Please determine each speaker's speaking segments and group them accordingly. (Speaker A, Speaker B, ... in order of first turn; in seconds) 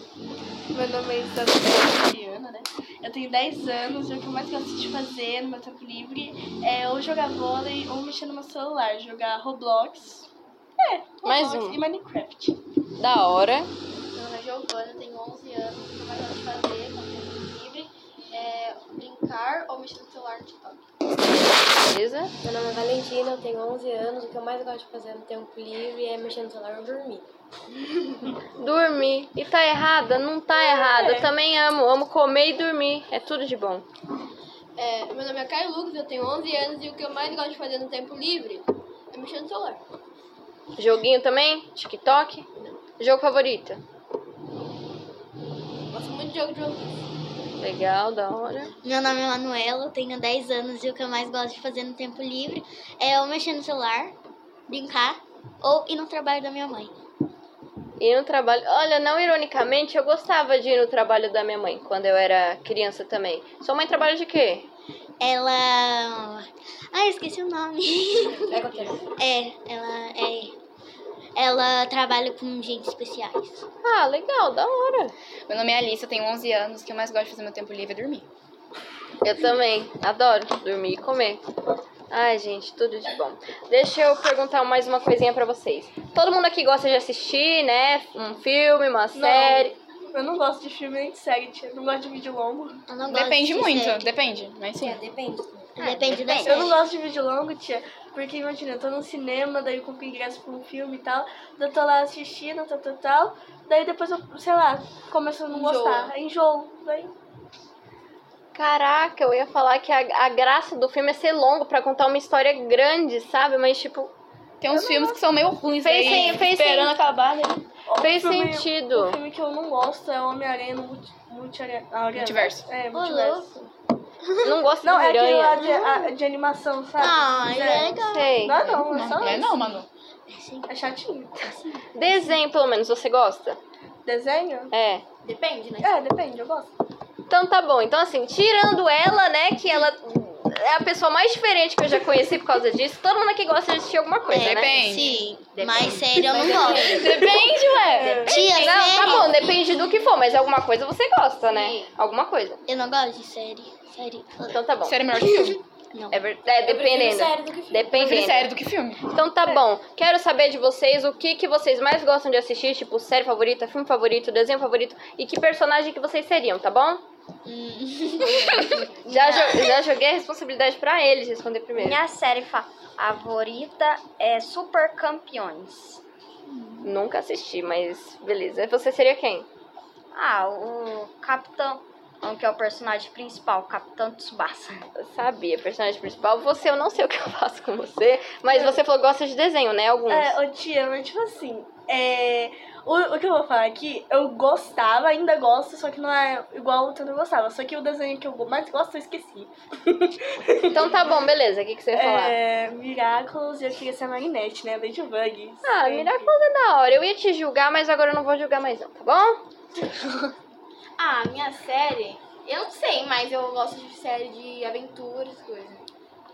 Speaker A: 0.7-10.3, 10.8-12.6, 30.5-31.3, 89.1-92.8, 96.4-107.1, 114.7-115.2, 117.8-123.7, 124.8-129.6, 130.7-131.6, 134.1-134.7, 135.8-136.7, 147.9-148.3, 188.5-188.8, 190.1-201.1, 201.9-206.3
Speaker B: 11.2-11.8, 13.0-13.7, 21.8-22.3, 28.6-33.9, 40.8-42.5, 43.0-43.8, 47.6-48.8, 58.0-64.7, 73.8-75.1, 79.2-81.4, 82.1-89.7, 108.5-114.1, 115.8-116.9, 118.0-119.2, 124.4-125.7, 128.1-128.6, 131.9-133.6, 134.7-135.0, 137.3-144.9, 148.2-152.6, 154.4-155.0, 156.1-158.5, 159.0-167.0, 168.6-172.0, 176.8-179.5, 184.9-190.4, 200.7-202.4, 205.6-209.4
Speaker C: 14.1-20.8, 34.8-39.8, 45.9-46.9, 105.5-106.1, 135.2-136.0, 145.1-146.6, 151.5-151.9, 211.0-215.8
Speaker D: 22.4-27.2, 94.8-95.7, 156.7-158.1
Speaker E: 48.8-54.1, 54.7-56.9, 65.2-70.5, 71.3-73.7, 92.9-94.1, 95.8-96.7, 122.9-123.5, 124.2-124.6, 125.6-126.1, 127.0-128.5, 130.3-130.7, 144.3-147.5, 148.2-149.4, 152.7-154.6, 155.1-156.2, 167.5-169.6
Speaker F: 68.5-69.0, 75.5-78.3, 93.0-95.0, 114.6-117.6, 122.2-122.7, 128.6-129.9, 144.3-145.1, 146.3-148.2, 154.8-155.6, 157.9-159.0
Speaker G: 96.0-96.7, 171.7-176.0, 180.1-184.8